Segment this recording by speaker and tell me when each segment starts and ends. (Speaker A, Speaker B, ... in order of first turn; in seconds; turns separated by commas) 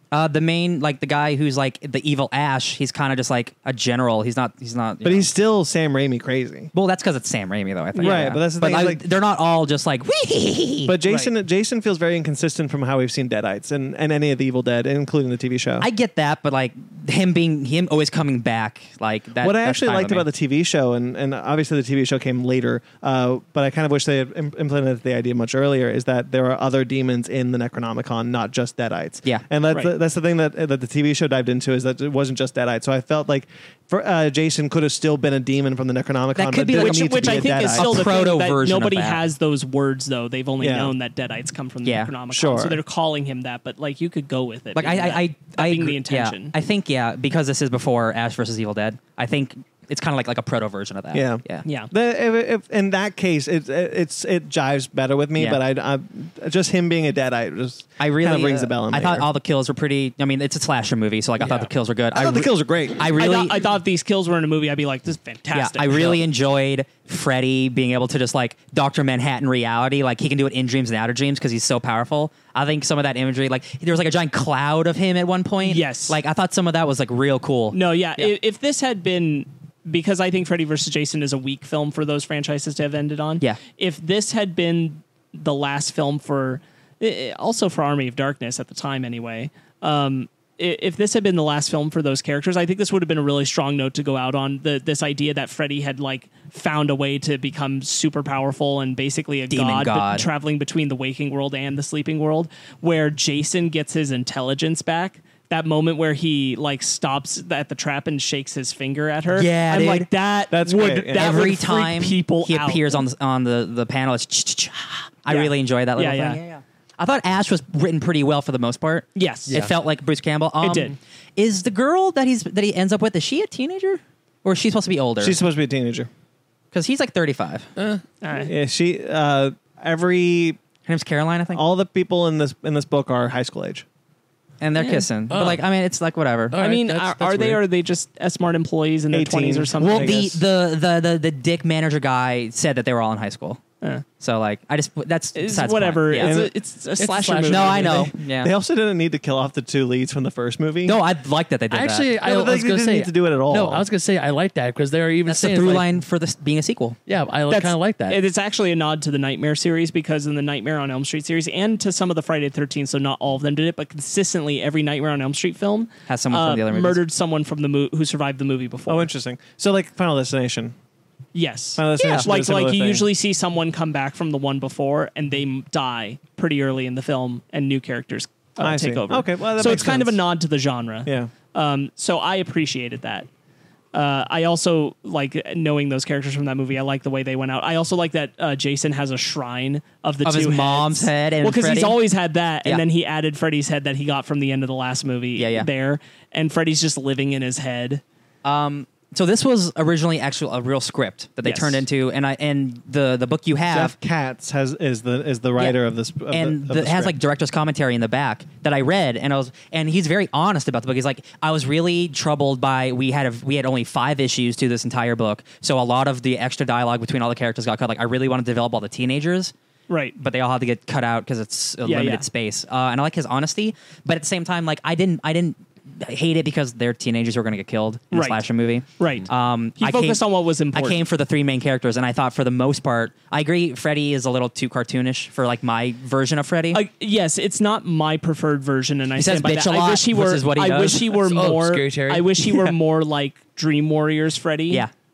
Speaker A: 0.1-5.3, Speaker B: 5.0-6.7, Speaker A: 6.7-10.9, Speaker C: 7.9-8.3, Speaker B: 8.0-9.0, Speaker B: 10.8-15.9, Speaker C: 11.1-11.3, Speaker A: 15.8-20.2, Speaker B: 19.4-38.0, Speaker A: 36.4-39.2, Speaker C: 36.8-46.5, Speaker B: 40.6-40.9, Speaker A: 41.8-42.1, Speaker B: 42.3-42.8, Speaker A: 44.7-51.6, Speaker B: 51.1-59.3, Speaker C: 51.6-51.9, Speaker A: 55.3-55.6, Speaker A: 58.0-63.6, Speaker D: 61.4-61.7, Speaker B: 62.1-63.1, Speaker C: 63.1-66.2, Speaker A: 65.5-78.3, Speaker C: 75.6-76.2, Speaker C: 77.7-113.0, Speaker A: 99.5-100.2, Speaker A: 109.3-110.1, Speaker B: 110.5-111.4, Speaker A: 111.2-125.4, Speaker C: 115.3-116.4, Speaker C: 119.2-119.6, Speaker C: 120.6-121.0, Speaker B: 125.2-126.1, Speaker A: 126.7-127.7, Speaker D: 127.8-128.0, Speaker C: 128.2-128.5, Speaker B: 128.4-130.6, Speaker A: 130.9-131.6, Speaker B: 131.5-133.8, Speaker A: 134.6-136.6, Speaker C: 134.8-135.1, Speaker D: 135.3-135.7, Speaker D: 136.5-137.6, Speaker C: 136.6-140.2, Speaker B: 139.1-140.4, Speaker A: 139.8-143.6, Speaker A: 144.2-146.4, Speaker C: 145.3-148.1, Speaker B: 146.2-146.5, Speaker D: 147.0-148.1, Speaker A: 147.5-148.5, Speaker B: 147.9-151.0, Speaker A: 150.8-152.1, Speaker D: 151.7-155.9, Speaker B: 152.2-153.8, Speaker A: 155.2-157.0, Speaker D: 157.1-158.2, Speaker C: 157.5-169.1, Speaker A: 166.1-167.0, Speaker B: 168.9-170.7, Speaker C: 171.3-183.3, Speaker B: 171.8-173.1, Speaker A: 172.0-172.3, Speaker B: 178.6-180.2, Speaker B: 181.1-181.3, Speaker C: 183.9-198.0, Speaker A: 190.2-192.0, Speaker A: 195.3-195.7, Speaker A: 198.4-203.9, Speaker C: 201.4-201.8, Speaker B: 203.7-207.1, Speaker A: 205.6-219.5, Speaker C: 219.9-220.1, Speaker A: 220.2-230.2, Speaker C: 221.8-222.2, Speaker C: 228.1-228.4, Speaker C: 229.0-231.0, Speaker A: 230.7-236.8, Speaker C: 236.7-244.8, Speaker A: 239.2-241.3, Speaker D: 241.3-242.3